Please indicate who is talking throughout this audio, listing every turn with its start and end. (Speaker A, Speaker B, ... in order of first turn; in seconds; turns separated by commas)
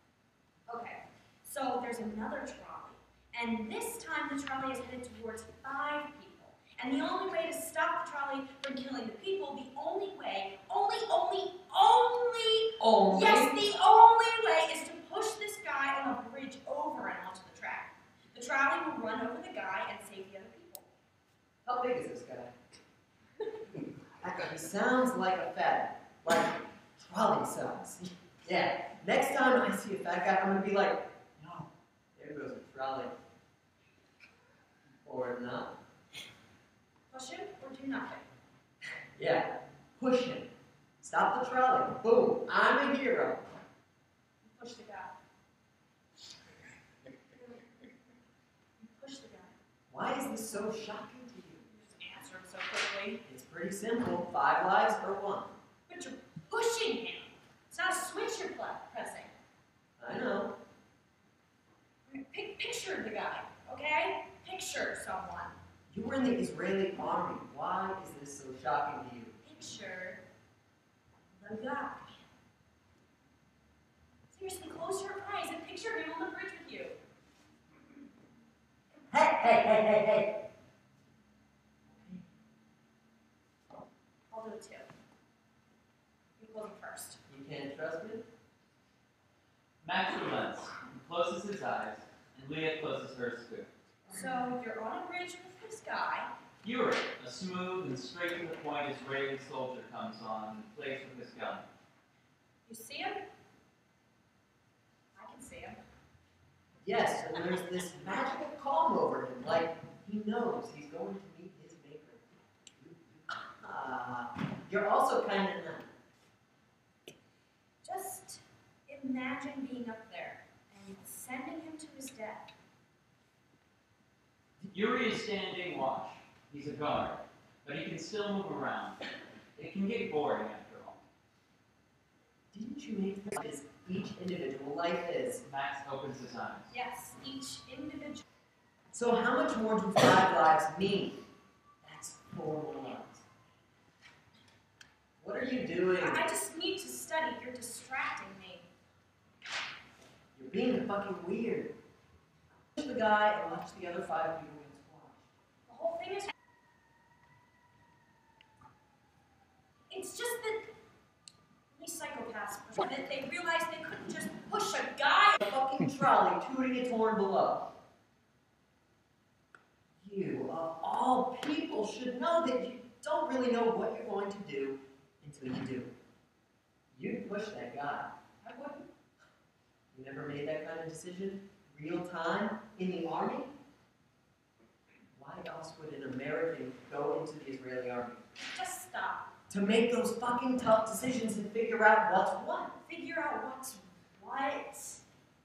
Speaker A: 0.7-20.9, Speaker B: 12.8-13.6, Speaker B: 21.6-22.5, Speaker B: 24.2-33.1, Speaker B: 35.0-35.7, Speaker A: 37.1-38.3, Speaker B: 39.1-40.5, Speaker B: 41.0-43.5, Speaker A: 44.4-45.1, Speaker A: 48.8-49.6, Speaker B: 49.9-51.6, Speaker A: 51.7-53.2, Speaker B: 53.2-55.5, Speaker A: 55.9-59.3, Speaker B: 60.0-60.5, Speaker A: 62.1-65.5, Speaker B: 65.9-69.3, Speaker A: 69.4-70.2, Speaker A: 71.4-72.1, Speaker A: 74.3-77.0, Speaker B: 79.1-80.4, Speaker B: 81.9-82.2, Speaker A: 84.3-84.9, Speaker A: 86.4-87.2, Speaker B: 87.3-88.2, Speaker C: 89.8-93.7, Speaker A: 94.1-96.3, Speaker C: 96.6-101.6, Speaker A: 102.7-103.2, Speaker A: 105.2-105.8, Speaker B: 106.8-115.9, Speaker A: 117.8-122.5, Speaker C: 124.7-129.0, Speaker C: 129.6-131.0, Speaker B: 132.5-135.4, Speaker C: 135.4-136.7, Speaker A: 136.7-138.2, Speaker B: 138.9-141.2, Speaker B: 141.8-143.2, Speaker B: 145.2-146.2, Speaker A: 146.0-148.7, Speaker B: 150.3-151.7, Speaker B: 152.7-155.3, Speaker A: 155.7-156.3, Speaker A: 159.9-160.7, Speaker A: 161.7-165.4, Speaker B: 165.4-167.7, Speaker B: 170.0-175.9, Speaker B: 176.9-178.1, Speaker A: 178.5-178.8, Speaker B: 179.9-183.5, Speaker B: 185.1-188.2, Speaker A: 188.4-189.3, Speaker B: 189.5-192.7, Speaker A: 192.8-195.0